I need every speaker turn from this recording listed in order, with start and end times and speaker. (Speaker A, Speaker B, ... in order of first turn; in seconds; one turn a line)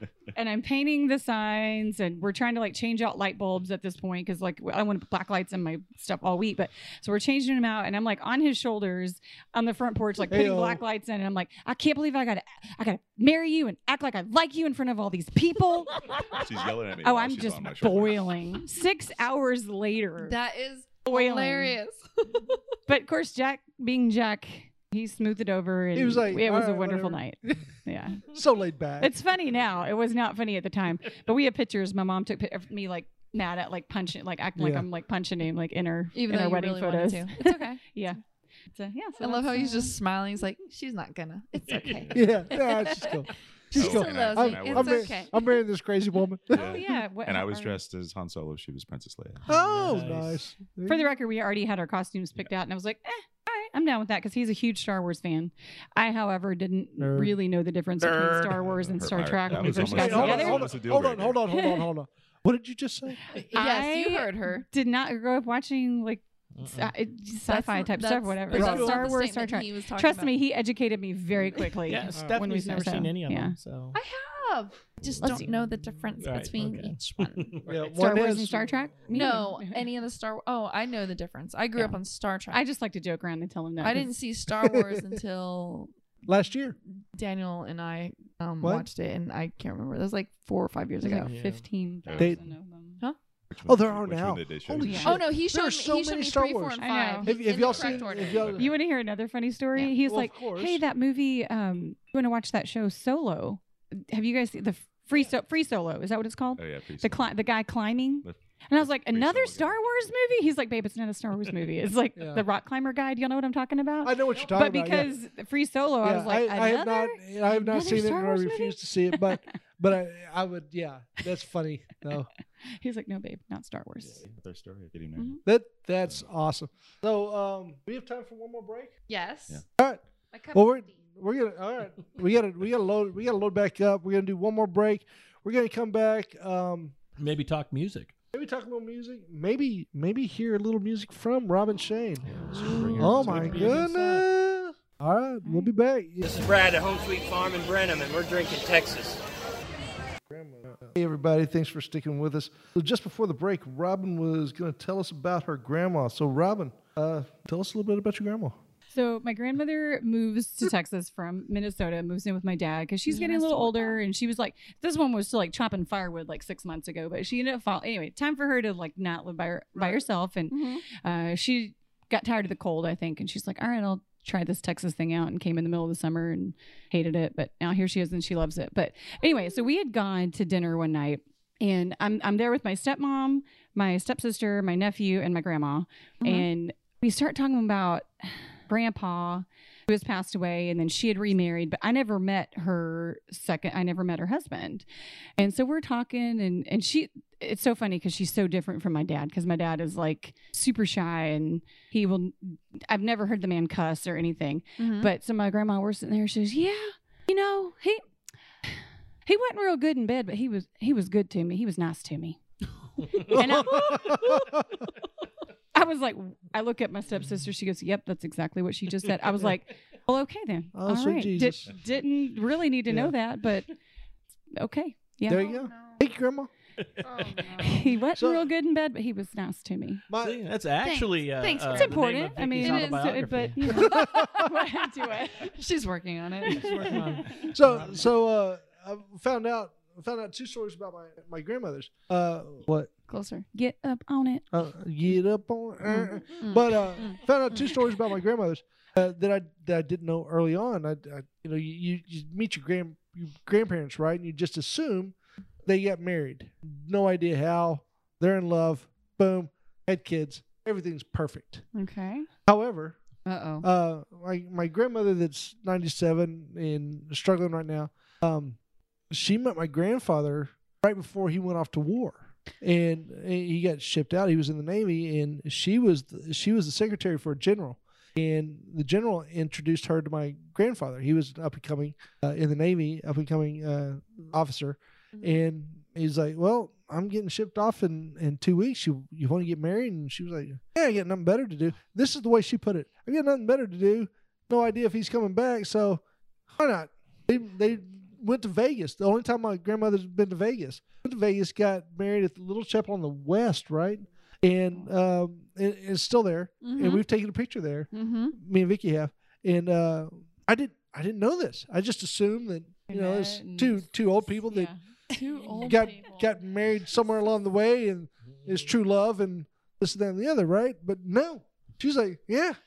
Speaker A: 0.3-16.4
Speaker B: 10.3-10.8
Speaker C: 16.2-18.4
Speaker A: 17.0-20.4
Speaker D: 20.2-22.6
Speaker A: 21.1-21.8
Speaker A: 22.9-28.3
Speaker B: 25.9-27.6
Speaker B: 28.3-29.1
Speaker A: 29.0-38.2
Speaker B: 34.6-34.9
Speaker D: 36.1-37.8
Speaker A: 38.7-39.9
Speaker D: 39.2-45.6
Speaker E: 41.7-42.2
Speaker B: 42.1-46.8
Speaker C: 43.7-45.3
Speaker C: 46.5-49.5
Speaker A: 46.5-47.8
Speaker E: 49.5-50.4
Speaker B: 49.5-51.1
Speaker A: 50.9-60.7
Speaker B: 57.0-57.4
Speaker C: 58.8-61.4
Speaker B: 59.7-63.2
Speaker A: 61.5-61.9
Speaker D: 63.3-64.7
Speaker A: 63.5-73.6
Speaker E: 66.6-67.0
Speaker D: 67.5-70.3
Speaker B: 68.5-69.1
Speaker E: 71.8-74.0
Speaker D: 73.9-77.7
Speaker E: 75.2-75.6
Speaker E: 76.2-77.8
Speaker B: 77.7-78.9
Speaker A: 78.0-79.8
Speaker D: 79.1-82.6
Speaker A: 82.5-84.1
Speaker D: 83.8-85.9
Speaker B: 84.5-85.2
Speaker B: 86.3-86.8
Speaker D: 87.1-91.3
Speaker B: 88.6-88.9
Speaker A: 91.0-93.0
Speaker E: 91.2-91.7
Speaker C: 92.0-92.4
Speaker C: 93.5-95.2
Speaker B: 93.7-98.7
Speaker A: 94.8-95.1
Speaker D: 95.0-98.6
Speaker A: 96.8-97.4
Speaker C: 97.6-98.7
Speaker A: 98.6-119.4
Speaker B: 100.0-100.8
Speaker C: 106.6-107.4
Speaker C: 108.2-109.8
Speaker B: 112.2-112.5
Speaker B: 114.0-115.1
Speaker B: 116.0-122.3
Speaker A: 122.8-124.2
Speaker C: 124.0-125.4
Speaker B: 125.5-128.9
Speaker D: 129.1-129.7
Speaker B: 129.8-137.0
Speaker D: 130.3-131.0
Speaker E: 137.2-138.2
Speaker B: 138.3-142.3
Speaker E: 142.3-144.3
Speaker C: 142.3-143.8
Speaker B: 142.9-146.5
Speaker A: 145.4-145.7
Speaker F: 146.2-149.2
Speaker B: 150.3-158.6
Speaker A: 158.9-194.9
Speaker D: 163.1-164.0
Speaker D: 170.5-170.8
Speaker D: 186.2-186.5
Speaker A: 195.4-208.0
Speaker D: 204.8-205.1
Speaker A: 208.6-212.4
Speaker E: 213.0-213.4
Speaker A: 213.1-214.3
Speaker B: 213.2-214.7
Speaker E: 214.1-214.3
Speaker A: 215.7-223.7
Speaker B: 220.7-221.7
Speaker B: 222.9-223.1
Speaker A: 224.5-225.4
Speaker B: 225.3-226.5
Speaker D: 225.3-226.0
Speaker E: 226.8-227.7
Speaker D: 227.0-227.9
Speaker A: 227.6-230.1
Speaker B: 228.2-228.5
Speaker B: 230.1-230.4
Speaker E: 230.2-233.7
Speaker D: 230.8-237.2
Speaker A: 231.7-235.5
Speaker B: 233.7-234.4
Speaker E: 236.4-238.1
Speaker A: 236.5-237.3
Speaker B: 237.5-242.9
Speaker D: 243.1-243.5
Speaker A: 243.5-244.4
Speaker B: 244.5-261.6
Speaker D: 245.9-248.0
Speaker A: 261.8-262.2
Speaker D: 261.8-262.2
Speaker B: 262.5-263.0
Speaker D: 263.3-263.7
Speaker B: 263.6-268.6
Speaker B: 269.1-314.7
Speaker D: 285.2-285.4
Speaker D: 306.6-307.0
Speaker D: 307.9-308.4
Speaker D: 312.9-313.9
Speaker D: 315.1-316.4
Speaker B: 315.6-322.6
Speaker E: 318.3-318.7